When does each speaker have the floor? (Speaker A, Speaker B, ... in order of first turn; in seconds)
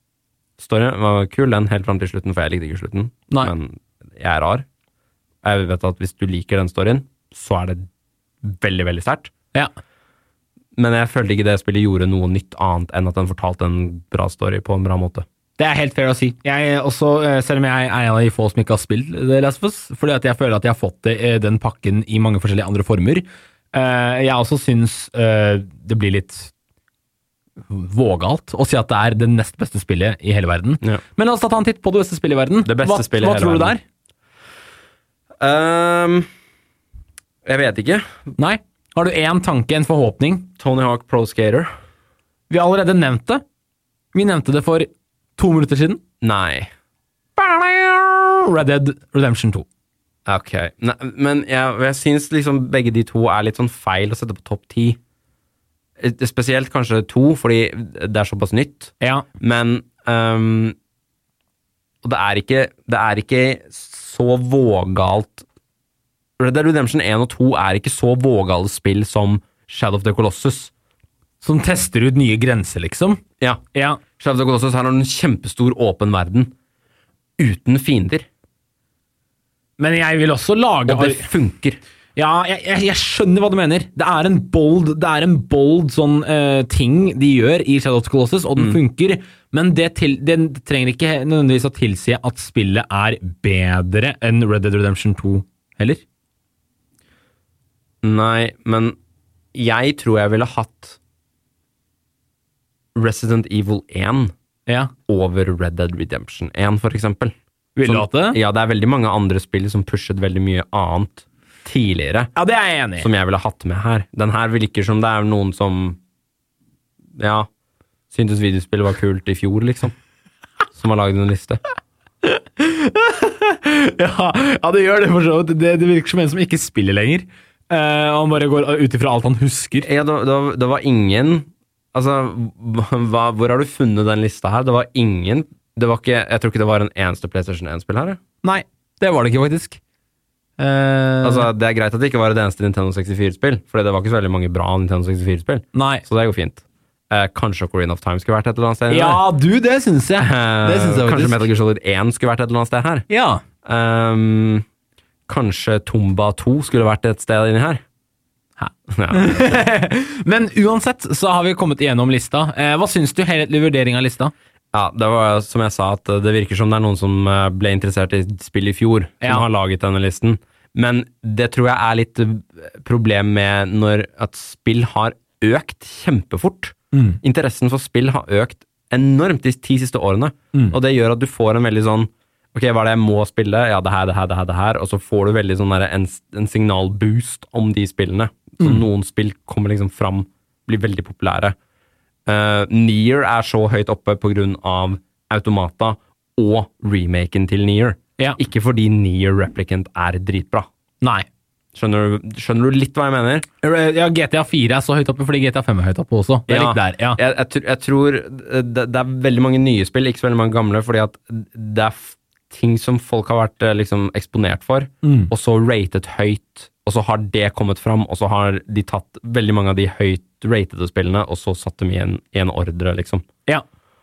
Speaker A: 0.6-4.7, 5.4-7.9, 8.4-9.3, 10.8-15.2, 32.6-33.7, 35.4-36.3, 37.4-38.0, 40.6-41.7, 46.2-46.7, 50.2-55.0, 56.0-60.8, 62.0-65.4, 66.4-70.7, 74.2-76.5, 77.4-78.3, 80.8-81.8, 98.0-99.0, 99.5-101.0, 102.9-104.3, 105.1-107.3, 107.8-112.3, 113.0-116.0, 117.2-117.5, 118.1-119.9, 120.7-121.6, 129.8-138.2, 141.2-149.2, 150.2-153.1, 153.6-154.6, 155.3-157.8, 158.9-159.6, 164.7-191.6, 192.2-200.7, 201.7-203.4, 206.5-223.2
Speaker B: 15.6-26.5, 27.7-33.8, 38.4-40.5, 42.5-43.4, 44.1-46.0, 47.4-49.6, 59.0-59.2, 71.4-73.2, 73.7-74.0, 79.8-81.3, 82.2-96.0, 104.7-104.9, 107.8-108.4, 112.3-113.1, 122.2-129.9, 138.4-139.8, 140.6-141.5, 145.7-146.0, 148.9-151.5, 153.1-153.4, 158.6-164.3, 176.9-177.2, 201.0-201.2, 203.6-207.2, 215.0-215.3